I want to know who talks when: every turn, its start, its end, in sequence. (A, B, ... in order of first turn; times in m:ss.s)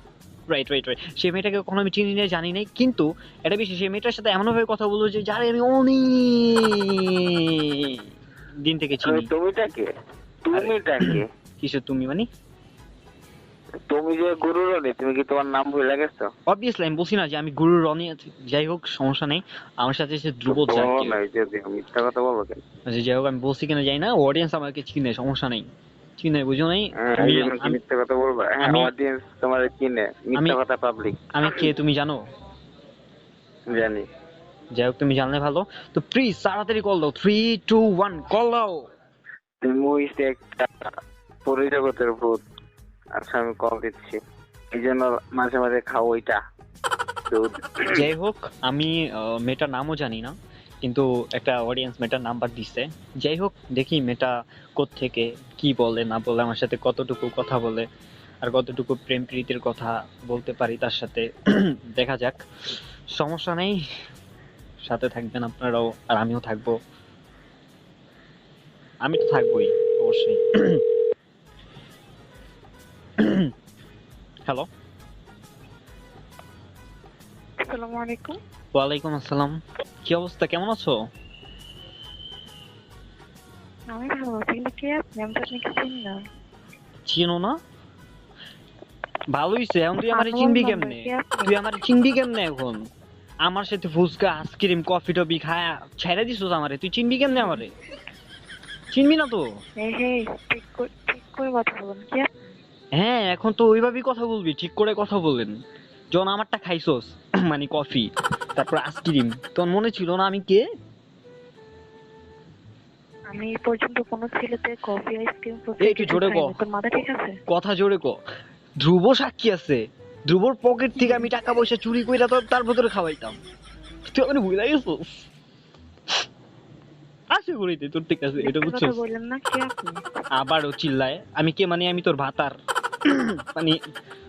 0:00.5-0:08.0 A
0:08.6-0:09.3 A
0:09.0-0:09.9 B
0:10.4-0:11.3 B
0:10.5-0:12.3 A
0:13.9-0:16.3 B
0:16.5-0:21.2 A
0:20.5-0:22.6 B
0:22.9-0:25.7 A
0:26.2-0:27.8 A
0:27.0-0:31.3 B
0:28.6-0:28.9 A
0:31.3-0:32.2 A
0:33.7-0:34.1 B
0:34.7-0:38.8 A
0:39.6-0:40.9 B
0:41.5-0:42.4 B
0:43.2-0:44.2 B
0:44.7-0:46.4 B
0:47.3-0:47.9 B
0:47.9-0:57.9 A
0:58.4-1:02.4 A
1:03.2-1:03.8 A
1:04.8-1:06.7 A
1:09.0-1:10.8 A
1:13.2-1:13.5 A
1:17.6-1:18.4 C
1:18.7-1:21.0 A
1:23.9-1:26.2 C
1:27.1-1:27.6 A
1:29.3-1:32.8 A
1:30.1-1:31.5 C
1:33.4-1:37.7 A
1:38.9-1:39.4 A
1:39.8-1:42.3 C
1:43.0-1:45.5 A
1:46.1-1:50.6 A
1:53.3-1:57.3 C
1:55.8-1:56.6 A
1:57.5-1:58.2 A
1:58.8-2:03.4 A
2:04.1-2:05.2 A
2:07.3-2:09.0 A
2:08.4-2:10.0 C
2:10.4-2:12.6 A
2:13.1-2:13.8 A